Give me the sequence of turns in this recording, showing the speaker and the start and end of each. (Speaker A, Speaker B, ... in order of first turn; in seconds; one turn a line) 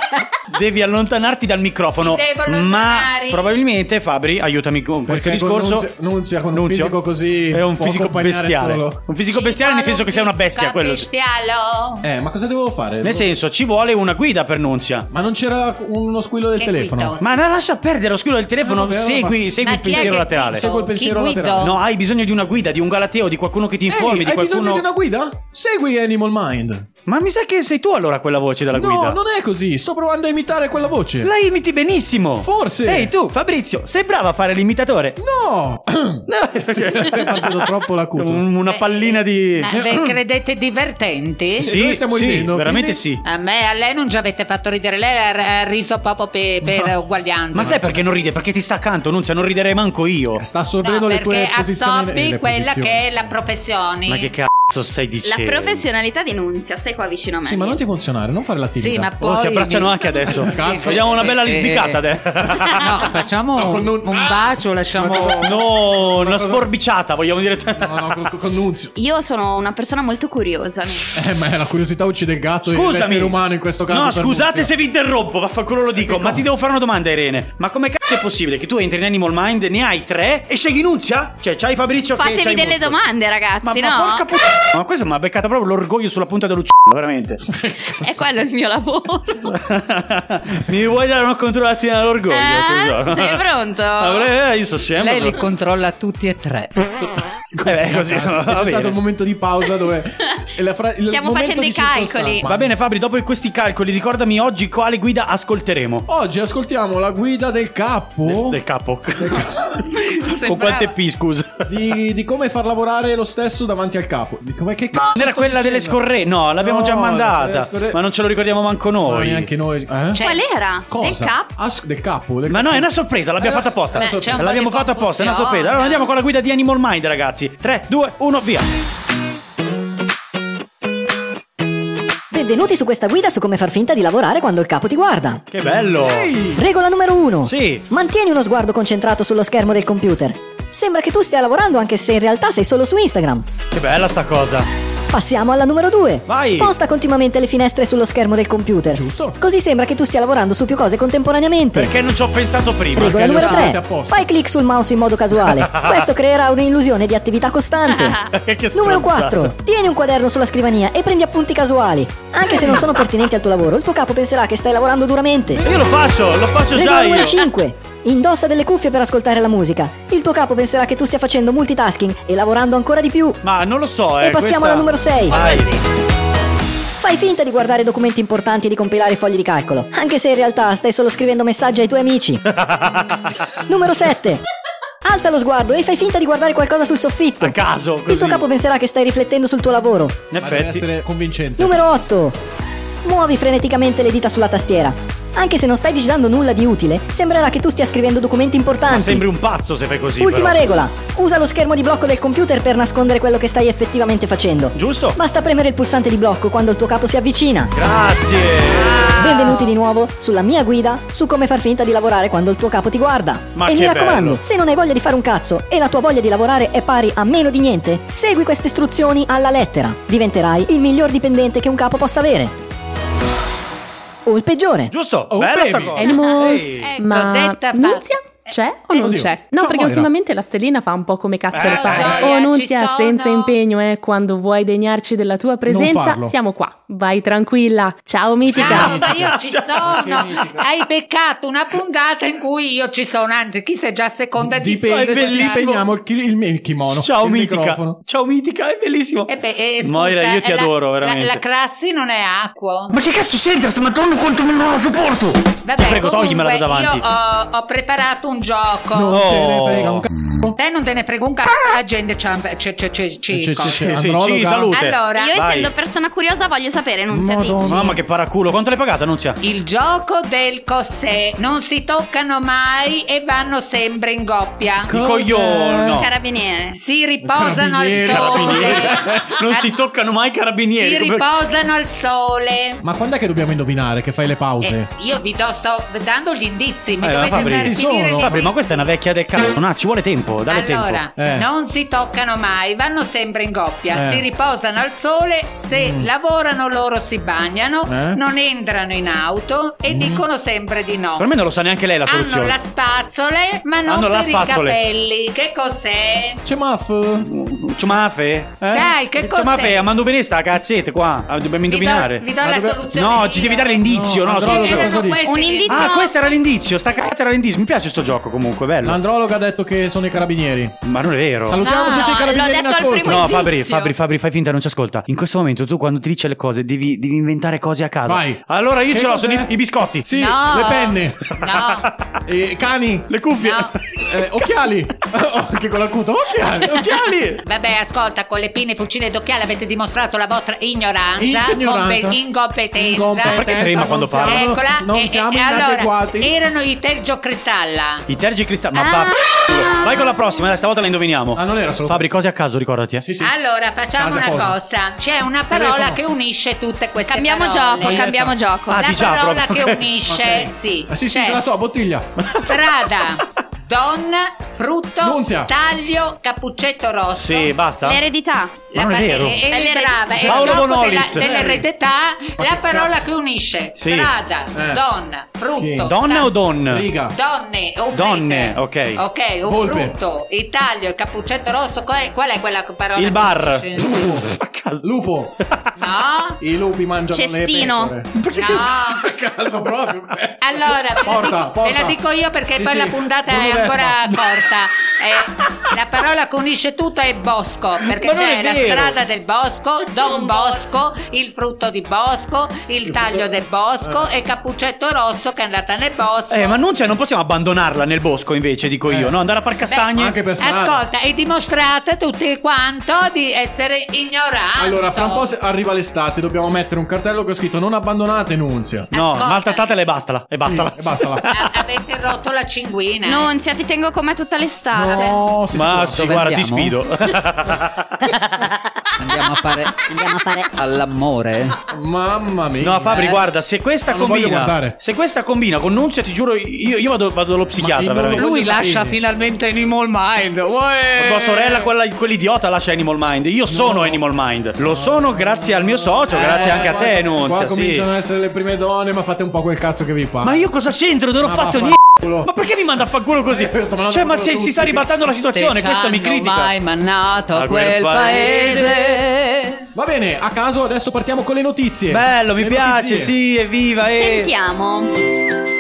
Speaker A: 0.5-5.9
Speaker B: 2.0-3.5
Speaker C: 5.1-9.0
Speaker A: 6.5-7.0
Speaker A: 7.5-11.1
Speaker B: 9.3-12.1
Speaker C: 12.0-13.3
Speaker A: 13.0-15.1
Speaker C: 15.1-17.2
Speaker B: 16.6-17.4
Speaker A: 17.2-20.6
Speaker C: 18.6-21.8
Speaker B: 19.6-21.7
Speaker A: 21.6-24.8
Speaker C: 23.9-26.9
Speaker A: 27.1-29.2
Speaker C: 28.7-31.3
Speaker A: 31.2-35.2
Speaker C: 32.4-33.1
Speaker C: 35.2-36.2
Speaker A: 36.3-39.7
Speaker C: 36.8-38.5
Speaker B: 38.7-41.7
Speaker C: 39.7-40.2
Speaker C: 41.6-43.0
Speaker A: 41.6-43.2
Speaker B: 43.2-48.0
Speaker C: 46.7-46.9
Speaker A: 47.5-50.4
Speaker C: 50.4-53.3
Speaker B: 50.8-54.3
Speaker A: 54.1-55.8
Speaker D: 55.2-57.8
Speaker C: 57.4-59.4
Speaker B: 58.8-62.0
Speaker A: 59.2-62.9
Speaker C: 60.3-61.4
Speaker B: 62.5-65.5
Speaker E: 62.8-63.9
Speaker C: 63.5-66.7
Speaker A: 65.4-68.3
Speaker C: 67.8-68.9
Speaker D: 69.0-71.2
Speaker C: 71.1-74.7
Speaker A: 72.7-83.0
Speaker C: 76.0-76.5
Speaker D: 82.2-84.3
Speaker A: 83.6-87.4
Speaker C: 87.6-88.3
Speaker D: 87.8-89.5
Speaker A: 89.5-93.5
Speaker D: 92.3-94.3
Speaker A: 94.0-95.4
Speaker B: 95.0-95.5
Speaker E: 95.3-96.7
Speaker C: 97.5-102.7
Speaker A: 97.7-99.0
Speaker D: 101.1-102.5
Speaker A: 102.4-106.1
Speaker C: 106.1-108.6
Speaker A: 108.3-111.7
Speaker C: 109.2-109.8
Speaker B: 110.1-110.9
Speaker C: 111.7-116.0
Speaker A: 115.1-119.5
Speaker C: 116.6-118.0
Speaker C: 119.0-120.2
Speaker B: 120.1-120.4
Speaker D: 120.2-121.5
Speaker C: 120.9-122.9
Speaker A: 122.5-128.7
Speaker C: 123.4-124.4
Speaker B: 123.9-126.1
Speaker F: 132.3-135.4
Speaker A: 135.5-136.3
Speaker C: 135.9-136.6
Speaker F: 136.6-143.5
Speaker A: 137.5-137.8
Speaker A: 143.7-144.7
Speaker F: 145.1-151.9
Speaker A: 146.3-146.7
Speaker C: 148.9-149.4
Speaker A: 151.7-153.6
Speaker C: 153.0-154.3
Speaker F: 153.0-165.7
Speaker A: 155.5-156.1
Speaker A: 158.3-159.5
Speaker A: 165.6-167.4
Speaker F: 166.7-173.4
Speaker A: 173.4-175.7
Speaker F: 174.2-175.4
Speaker D: 175.3-175.8
Speaker F: 177.0-182.4
Speaker A: 182.5-183.4
Speaker F: 183.7-184.4
Speaker F: 185.0-190.2
Speaker A: 187.4-188.4
Speaker A: 190.3-190.9
Speaker C: 190.4-191.8
Speaker F: 191.6-192.4
Speaker F: 193.0-199.3
Speaker A: 198.9-200.7
Speaker F: 200.2-207.7
Speaker A: 204.8-205.2
Speaker A: 207.7-209.4
Speaker B: 208.7-209.7
Speaker F: 209.1-222.5
Speaker A: 213.6-214.4
Speaker F: 224.3-224.9
Speaker A: 224.9-226.9
Speaker C: 225.3-226.0
Speaker G: 226.0-239.0
Speaker B: 226.0-228.1
Speaker C: 228.9-230.1
Speaker A: 231.5-232.3
Speaker B: 231.6-233.6
Speaker C: 235.7-236.3
Speaker B: 238.5-245.6
Speaker A: 238.5-240.3
Speaker C: 238.7-239.2
Speaker C: 239.9-240.6
Speaker C: 244.4-248.0
Speaker A: 244.9-245.9
Speaker A: 246.9-249.3
Speaker B: 249.3-252.9
Speaker A: 249.8-251.4
Speaker A: 252.9-257.0
Speaker B: 255.7-259.2
Speaker C: 258.9-260.6
Speaker A: 259.1-260.1
Speaker B: 260.6-263.9
Speaker C: 263.3-264.8
Speaker A: 263.7-265.7
Speaker B: 264.7-265.4
Speaker D: 265.2-267.9
Speaker C: 267.1-268.0
Speaker A: 267.6-269.4
Speaker B: 269.4-274.9
Speaker C: 274.9-276.0
Speaker A: 274.9-276.1
Speaker D: 275.8-276.8
Speaker B: 276.7-279.7
Speaker C: 277.2-279.3
Speaker A: 278.1-281.2
Speaker B: 280.7-282.8
Speaker C: 282.8-284.9
Speaker B: 284.6-288.6
Speaker A: 287.0-291.0
Speaker C: 287.6-288.4
Speaker B: 290.5-301.3
Speaker C: 291.2-291.5
Speaker C: 293.9-294.3
Speaker C: 295.7-296.1
Speaker C: 297.9-298.2
Speaker C: 299.9-300.2
Speaker A: 301.2-302.5
Speaker B: 302.1-306.4
Speaker A: 303.9-304.8
Speaker C: 306.4-307.3
Speaker A: 307.2-308.6
Speaker C: 308.6-308.9
Speaker B: 308.7-309.8
Speaker A: 309.2-312.2
Speaker B: 311.7-313.8
Speaker C: 312.4-312.8
Speaker A: 312.9-314.9
Speaker C: 313.9-315.3
Speaker B: 314.4-315.9
Speaker D: 315.2-316.3
Speaker A: 315.7-319.0
Speaker C: 318.8-320.8
Speaker A: 320.8-321.6
Speaker C: 321.4-323.4
Speaker D: 321.6-323.9
Speaker B: 321.6-322.0
Speaker A: 323.0-330.1
Speaker C: 328.1-329.5
Speaker C: 330.0-331.2
Speaker B: 330.1-331.9
Speaker A: 331.5-332.1
Speaker C: 332.3-333.2
Speaker A: 333.1-334.0
Speaker B: 333.4-333.7
Speaker C: 334.0-336.9
Speaker A: 336.6-337.4
Speaker B: 337.4-343.4
Speaker C: 341.2-342.2
Speaker C: 342.8-346.3
Speaker A: 343.2-344.5
Speaker B: 344.3-348.1
Speaker A: 348.1-353.1
Speaker D: 348.8-349.9
Speaker C: 351.4-352.1
Speaker C: 353.0-353.3
Speaker B: 353.2-358.1
Speaker C: 354.0-354.6
Speaker C: 355.5-356.0
Speaker D: 357.1-358.9
Speaker C: 357.8-358.4
Speaker A: 358.7-360.0
Speaker B: 358.7-361.4
Speaker C: 360.1-362.1
Speaker A: 362.2-362.5
Speaker B: 362.4-367.5
Speaker C: 365.0-365.5
Speaker A: 367.1-368.0
Speaker D: 367.8-368.6
Speaker B: 368.7-376.3
Speaker A: 368.7-369.4
Speaker D: 369.5-370.6
Speaker A: 370.2-371.6
Speaker C: 371.2-371.6
Speaker C: 372.4-373.1
Speaker A: 373.8-374.1
Speaker C: 374.5-374.8
Speaker C: 375.6-375.9
Speaker A: 375.9-376.9
Speaker C: 376.6-377.2
Speaker B: 377.1-383.9
Speaker A: 377.9-379.0
Speaker C: 379.4-380.0
Speaker A: 383.0-384.9
Speaker C: 383.8-385.3
Speaker A: 385.4-385.7
Speaker B: 385.8-386.4
Speaker C: 386.4-392.0
Speaker D: 387.1-387.9
Speaker A: 388.2-388.7
Speaker B: 388.4-389.0
Speaker B: 390.4-406.6
Speaker C: 392.6-394.4
Speaker A: 397.9-399.0
Speaker D: 400.0-400.6
Speaker C: 402.9-403.3
Speaker A: 406.3-410.2
Speaker C: 408.9-409.1
Speaker B: 409.7-415.3
Speaker C: 409.9-410.8
Speaker C: 414.6-418.9
Speaker B: 418.9-419.7
Speaker A: 418.9-421.4
Speaker C: 420.4-421.3
Speaker B: 421.3-423.3
Speaker D: 423.1-425.2
Speaker C: 424.7-426.3
Speaker A: 425.5-427.9
Speaker E: 426.0-426.8
Speaker E: 429.0-431.6
Speaker C: 431.7-433.2
Speaker A: 432.6-438.3
Speaker C: 433.9-434.8
Speaker C: 437.6-439.0
Speaker E: 438.1-441.1
Speaker A: 441.0-447.9
Speaker C: 441.0-441.7
Speaker C: 443.5-444.0
Speaker C: 444.6-450.5
Speaker A: 450.2-456.5
Speaker C: 451.2-452.3
Speaker C: 453.3-454.9
Speaker E: 455.4-459.5
Speaker A: 457.3-459.0
Speaker C: 459.8-463.1
Speaker A: 461.9-464.3
Speaker D: 463.9-464.9